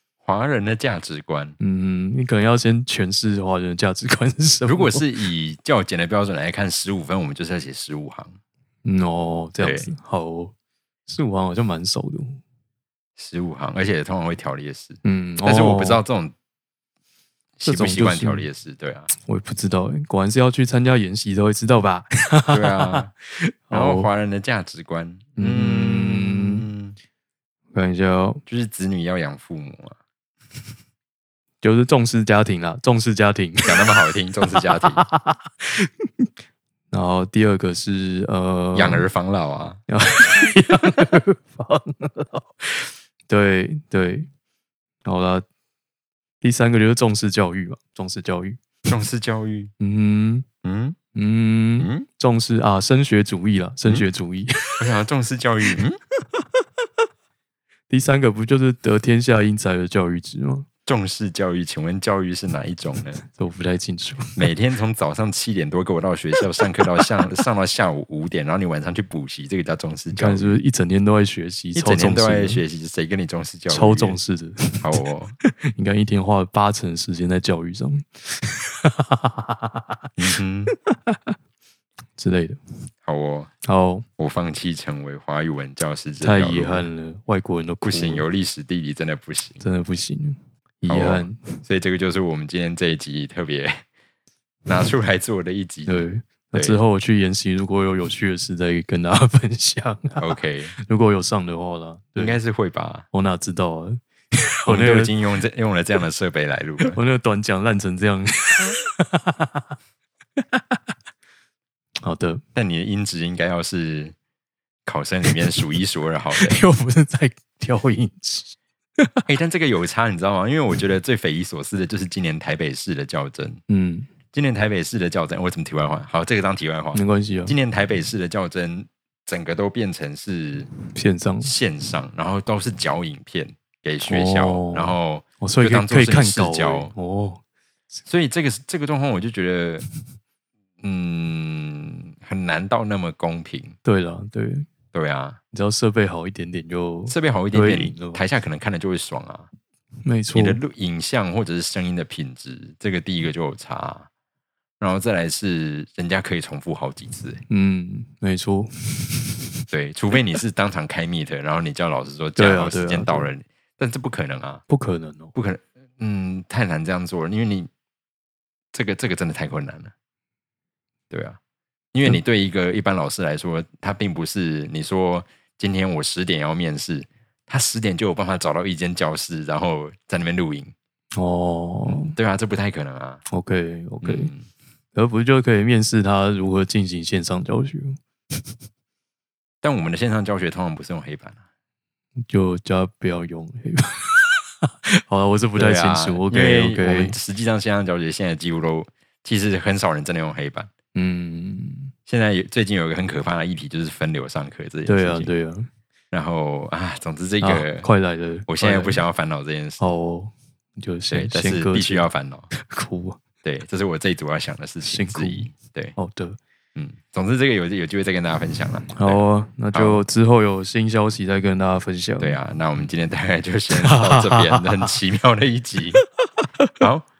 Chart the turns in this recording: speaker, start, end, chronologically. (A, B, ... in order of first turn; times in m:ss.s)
0:00.2-0:01.6 A
0:01.6-0:05.0 B
0:04.7-0:08.4 A
0:08.8-0:10.5 B
0:09.6-0:09.9 A
0:11.1-0:12.4 B
0:13.2-0:16.3 A
0:15.0-0:16.0 B
0:17.6-0:19.1 A
0:17.6-0:18.4 B
0:19.2-0:24.1 B
0:22.5-0:23.1 A
0:23.7-0:27.0 A
0:25.4-0:26.6 B
0:27.7-0:28.4 B
0:28.5-0:30.0 A
0:31.6-0:33.9 B
0:33.6-0:35.0 A
0:34.6-0:36.3 B
0:36.9-0:39.1 B
0:38.7-0:39.8 A
0:39.9-0:44.3 B
0:45.0-0:45.4 B
0:46.4-0:48.6 B
0:48.9-0:49.7 A
0:49.8-0:50.4 B
0:50.6-0:51.0 A
0:51.1-0:54.8 B
0:51.8-0:52.1 A
0:54.8-0:56.0 A
0:57.9-1:00.7 B
1:00.8-1:03.2 A
1:03.2-1:04.4 B
1:04.4-1:10.5 A
1:10.1-1:12.6 B
1:11.7-1:14.2 A
1:13.7-1:14.8 B
1:14.8-1:15.3 A
1:15.7-1:19.8 B
1:20.2-1:20.7 A
1:20.7-1:21.2 B
1:22.2-1:22.6 B
1:23.0-1:23.5 A
1:23.6-1:24.0 B
1:24.2-1:26.9 A
1:26.2-1:28.2 B
1:27.8-1:29.6 A
1:29.6-1:31.6 B
1:30.8-1:33.8 A
1:34.7-1:36.8 A
1:35.8-1:42.4 B
1:40.2-1:40.7 A
1:42.2-1:43.1 A
1:43.1-1:45.1 B
1:44.7-1:47.0 A
1:46.8-1:49.7 B
1:50.4-1:50.8 B
1:52.0-1:52.4 B
1:52.5-1:54.1 A
1:54.8-1:56.6 A
1:56.3-1:59.1 B
1:59.2-2:03.6 A
2:03.7-2:04.1 B
2:04.3-2:10.7 A
2:06.9-2:07.5 B
2:10.9-2:11.5 B
2:11.4-2:16.9 A
2:14.0-2:17.4 B
2:18.1-2:19.8 A
2:20.8-2:23.8 A
2:23.8-2:24.6 B
2:24.9-2:25.4 A
2:25.5-2:28.2 B
2:27.1-2:29.5 A
2:30.0-2:30.6 B
2:30.3-2:34.1 A
2:34.8-2:37.4 A
2:37.5-2:39.4 B
2:39.7-2:44.6 A
2:42.4-2:43.3 B
2:44.7-2:45.3 B
2:45.3-2:47.7 A
2:48.7-2:49.9 A
2:51.1-2:51.4 A
2:51.9-3:00.7 A
3:01.2-3:02.2 B
3:01.9-3:03.2 A
3:03.3-3:04.3 B
3:04.0-3:04.5 A
3:04.9-3:08.0 B
3:09.6-3:11.4 A
3:12.3-3:17.1 B
3:15.6-3:20.7 A
3:20.9-3:21.9 B
3:22.1-3:25.3 A
3:24.8-3:25.7 B
3:26.1-3:27.9 A
3:27.4-3:29.0 B
3:28.5-3:29.8 A
3:29.8-3:33.2 B
3:31.1-3:32.5 A
3:33.4-3:35.9 A
3:34.8-3:36.4 B
3:36.7-3:39.2 A
3:38.9-3:42.4 B
3:39.7-3:40.0 A
3:42.2-3:46.0 A
3:43.7-3:44.9 B
3:46.4-3:46.7 B
3:46.8-3:47.1 A